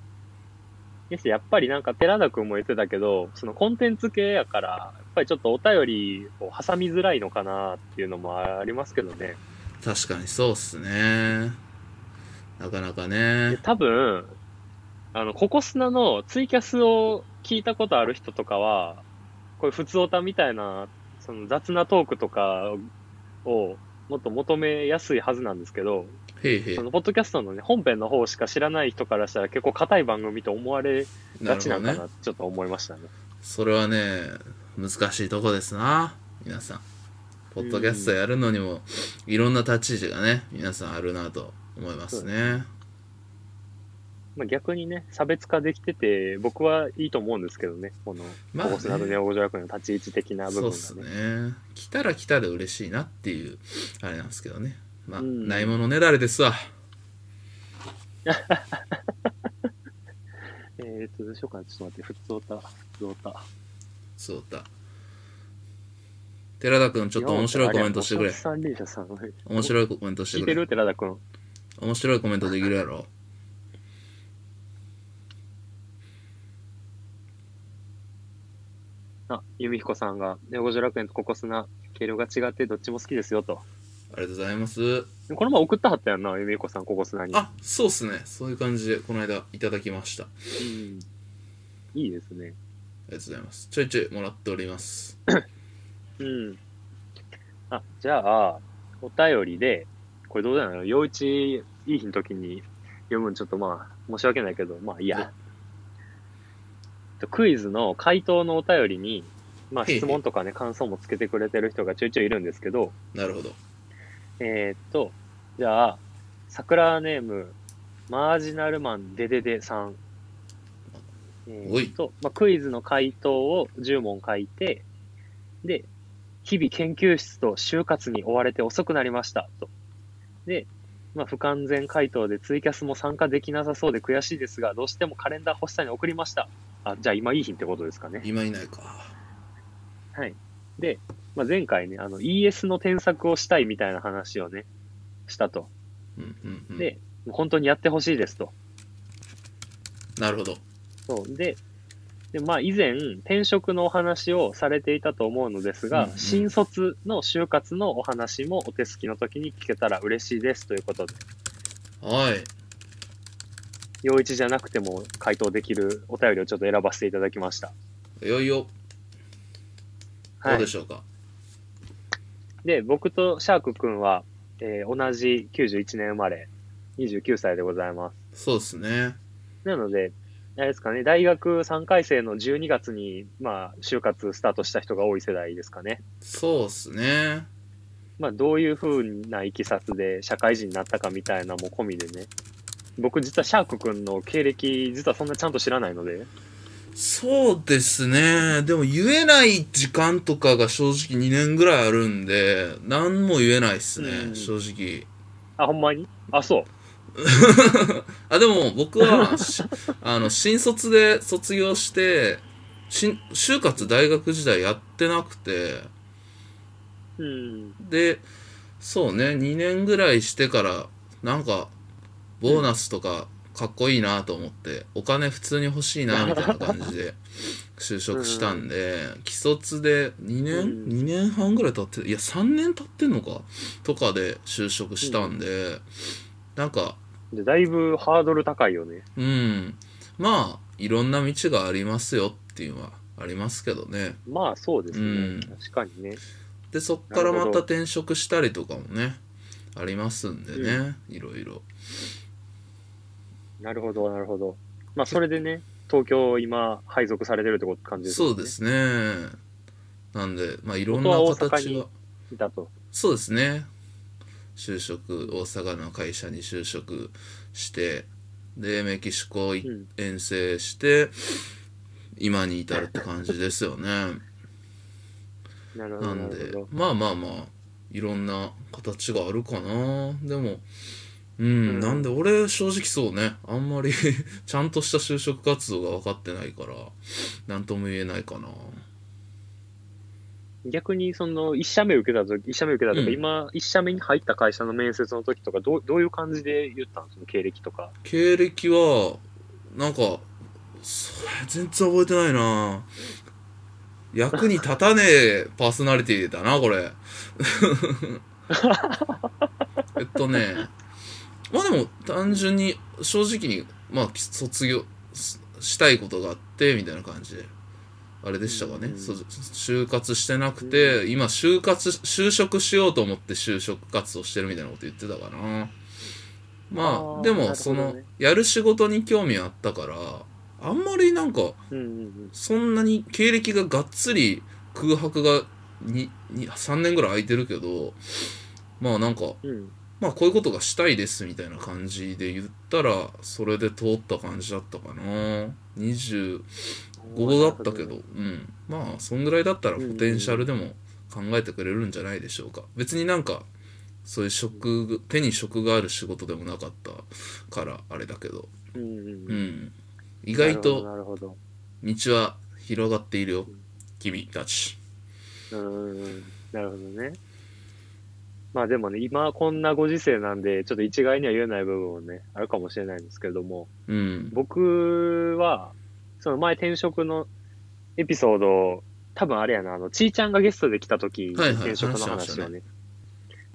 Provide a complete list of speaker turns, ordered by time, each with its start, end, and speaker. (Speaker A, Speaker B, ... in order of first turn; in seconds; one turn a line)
Speaker A: 1.1-9.4
Speaker B: 9.8-11.6
Speaker B: 12.6-13.6
Speaker A: 13.5-14.4
Speaker A: 15.1-19.0
Speaker A: 19.6-22.9
Speaker A: 23.4-26.2
Speaker B: 26.4-26.9
Speaker A: 26.8-33.1
Speaker B: 31.4-32.0
Speaker B: 33.4-36.9
Speaker B: 37.5-42.7
Speaker A: 37.6-38.1
Speaker A: 44.4-51.1
Speaker B: 48.5-49.2
Speaker B: 50.5-56.7
Speaker A: 55.2-55.8
Speaker A: 58.2-59.0
Speaker A: 60.8-63.5
Speaker B: 64.2-64.7
Speaker B: 66.6-68.4
Speaker A: 67.2-69.7
Speaker B: 69.5-70.6
Speaker A: 70.3-71.2
Speaker B: 71.8-73.1
Speaker A: 79.3-83.6
Speaker B: 84.1-85.1
Speaker A: 85.3-87.4
Speaker B: 87.3-90.3
Speaker A: 90.6-91.1
Speaker A: 91.9-92.6
Speaker B: 93.1-95.2
Speaker A: 96.2-96.6
Speaker A: 97.7-105.3
Speaker A: 107.2-112.9
Speaker B: 109.8-110.2
Speaker B: 113.1-113.6
Speaker A: 114.4-117.6
Speaker A: 118.1-120.0
Speaker A: 121.5-124.9
Speaker B: 121.6-122.0
Speaker A: 125.6-125.9
Speaker A: 126.5-129.7
Speaker A: 130.5-138.3
Speaker B: 138.2-139.1
Speaker A: 140.2-144.7
Speaker A: 145.3-145.7
Speaker B: 146.2-146.9
Speaker A: 146.8-148.5
Speaker B: 150.2-150.6
Speaker A: 151.1-151.6
Speaker A: 152.3-161.2
Speaker B: 155.9-156.5
Speaker B: 162.0-162.5
Speaker A: 164.0-167.7
Speaker B: 168.2-168.7
Speaker A: 170.4-170.7
Speaker B: 170.5-171.1
Speaker A: 172.6-178.1
Speaker B: 178.3-179.2
Speaker A: 179.7-186.0
Speaker B: 186.2-187.5
Speaker A: 188.2-192.3
Speaker A: 193.0-196.3
Speaker B: 196.9-205.1
Speaker A: 204.0-204.5
Speaker A: 205.6-206.7
Speaker B: 207.2-215.9
Speaker A: 209.0-209.7
Speaker A: 217.2-217.8
Speaker B: 217.8-218.3
Speaker B: 218.8-221.8
Speaker B: 222.4-227.2
Speaker A: 226.1-226.9
Speaker B: 227.8-235.8
Speaker A: 228.1-228.7
Speaker A: 230.5-230.9
Speaker A: 235.0-235.4
Speaker B: 236.6-237.0
Speaker A: 237.3-239.1
Speaker B: 239.2-244.2
Speaker A: 244.3-246.2
Speaker B: 244.9-245.5
Speaker B: 246.7-249.2
Speaker A: 247.1-247.6
Speaker B: 249.7-251.7
Speaker A: 250.6-250.8
Speaker A: 253.6-258.6
Speaker B: 258.0-259.4
Speaker B: 260.1-261.9
Speaker A: 260.9-262.7
Speaker B: 262.9-263.7
Speaker B: 264.6-271.4
Speaker B: 272.2-274.2
Speaker A: 275.8-276.7
Speaker B: 276.0-280.6
Speaker B: 281.4-288.8
Speaker A: 281.7-282.1
Speaker A: 290.6-297.9
Speaker B: 292.9-293.2
Speaker B: 298.0-302.9
Speaker B: 304.1-308.2
Speaker A: 308.5-309.3
Speaker B: 310.0-310.7
Speaker B: 311.5-317.5
Speaker B: 318.2-325.8
Speaker A: 318.5-319.2
Speaker A: 320.6-321.0
Speaker B: 326.7-331.6
Speaker A: 326.8-328.1
Speaker A: 331.7-332.4
Speaker B: 332.3-339.4
Speaker A: 339.4-339.7
Speaker B: 340.0-346.5
Speaker A: 347.0-348.0
Speaker B: 347.1-353.5
Speaker A: 349.8-350.5
Speaker B: 354.0-358.5
Speaker A: 358.8-359.4
Speaker B: 359.3-360.9
Speaker A: 360.4-361.4
Speaker B: 361.8-364.8
Speaker A: 365.5-367.2
Speaker A: 368.5-373.7
Speaker B: 373.9-374.4
Speaker A: 374.3-377.3
Speaker A: 378.0-382.6
Speaker B: 381.4-382.5